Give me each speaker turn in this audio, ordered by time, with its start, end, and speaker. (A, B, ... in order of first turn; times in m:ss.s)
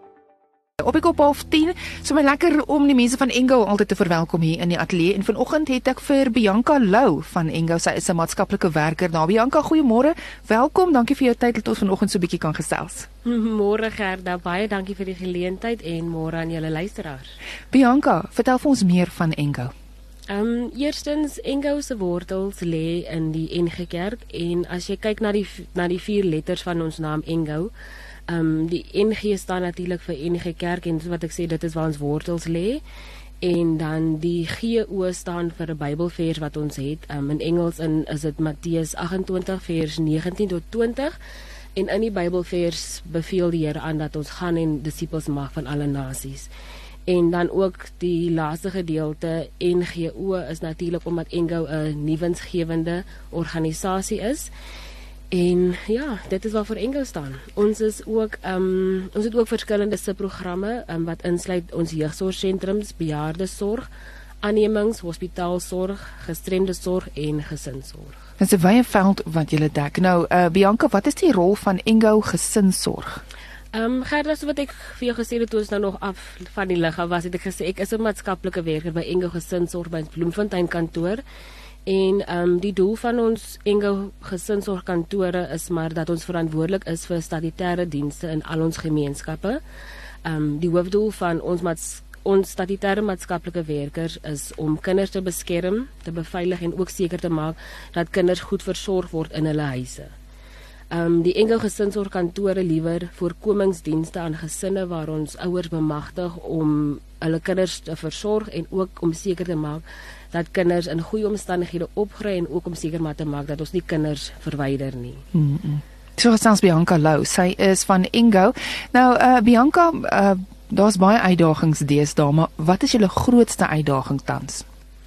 0:00.8-0:13.1 A
0:13.2-0:17.3 B
0:17.7-0:19.7 A
0:20.3-0:27.7 B
0:28.3-0:32.8 B
0:33.4-0:41.2 B
0:41.7-0:46.5 B
0:47.1-0:54.5 B
0:55.3-1:03.9 B
1:04.4-1:08.2 B
1:08.4-1:13.2 A
1:13.7-1:21.2 B
1:21.8-1:29.6 B
1:30.2-1:40.1 B
1:40.9-1:55.2 B
1:55.3-2:04.6 A